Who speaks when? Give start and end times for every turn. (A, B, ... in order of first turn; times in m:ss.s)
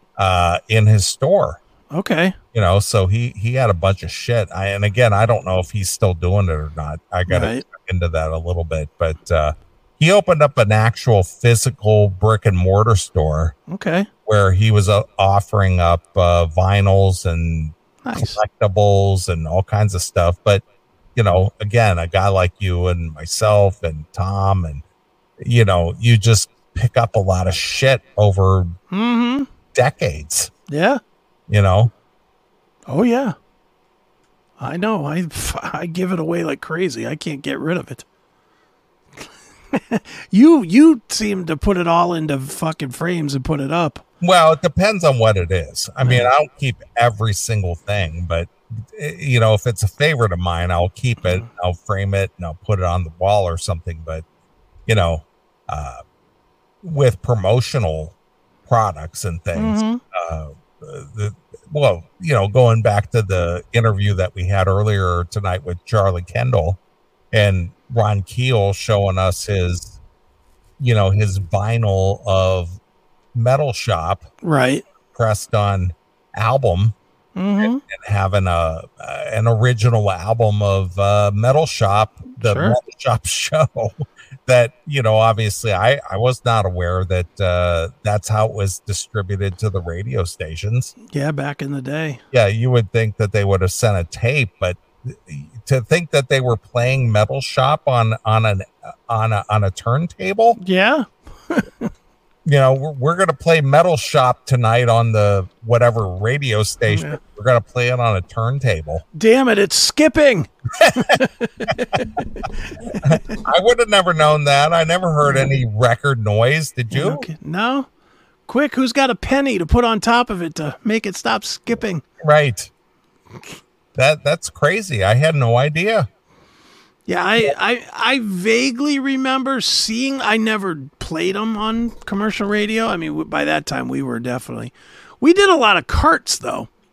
0:00.2-0:01.6 A
0:01.9-0:02.4 B
0:02.5-0:13.5 A
0:07.3-0:07.6 B
0:13.7-0:14.1 B
0:14.2-0:20.6 A
0:18.0-0:18.4 B
0:21.2-0:24.8 A
0:25.4-0:28.7 A
0:28.9-0:29.5 B
0:29.7-0:30.5 A
0:30.7-0:31.0 B
0:31.5-0:31.9 A
0:32.9-0:33.3 B
0:34.6-0:38.0 B
0:39.7-0:44.0 B
0:44.2-0:54.2 A
0:46.0-0:46.3 B
0:54.9-0:56.0 A
0:56.8-0:58.1 A
0:58.6-1:06.8 A
0:59.5-1:00.0 B
1:07.3-1:10.0 A
1:10.8-1:12.8 A
1:13.3-1:14.3 A
1:14.4-1:14.8 B
1:15.1-1:16.9 A
1:17.4-1:17.8 B
1:17.6-1:30.9 A
1:22.4-1:22.8 B
1:31.1-1:32.2 B
1:32.3-1:40.6 A
1:40.6-1:41.9 B
1:42.4-1:49.0 A
1:46.9-1:47.2 B
1:49.1-1:53.4 B
1:50.8-1:51.2 A
1:53.0-1:57.3 A
1:56.9-1:57.9 B
1:58.5-2:02.0 B
2:02.2-2:02.7 A
2:03.9-2:06.1 A
2:07.1-2:16.7 B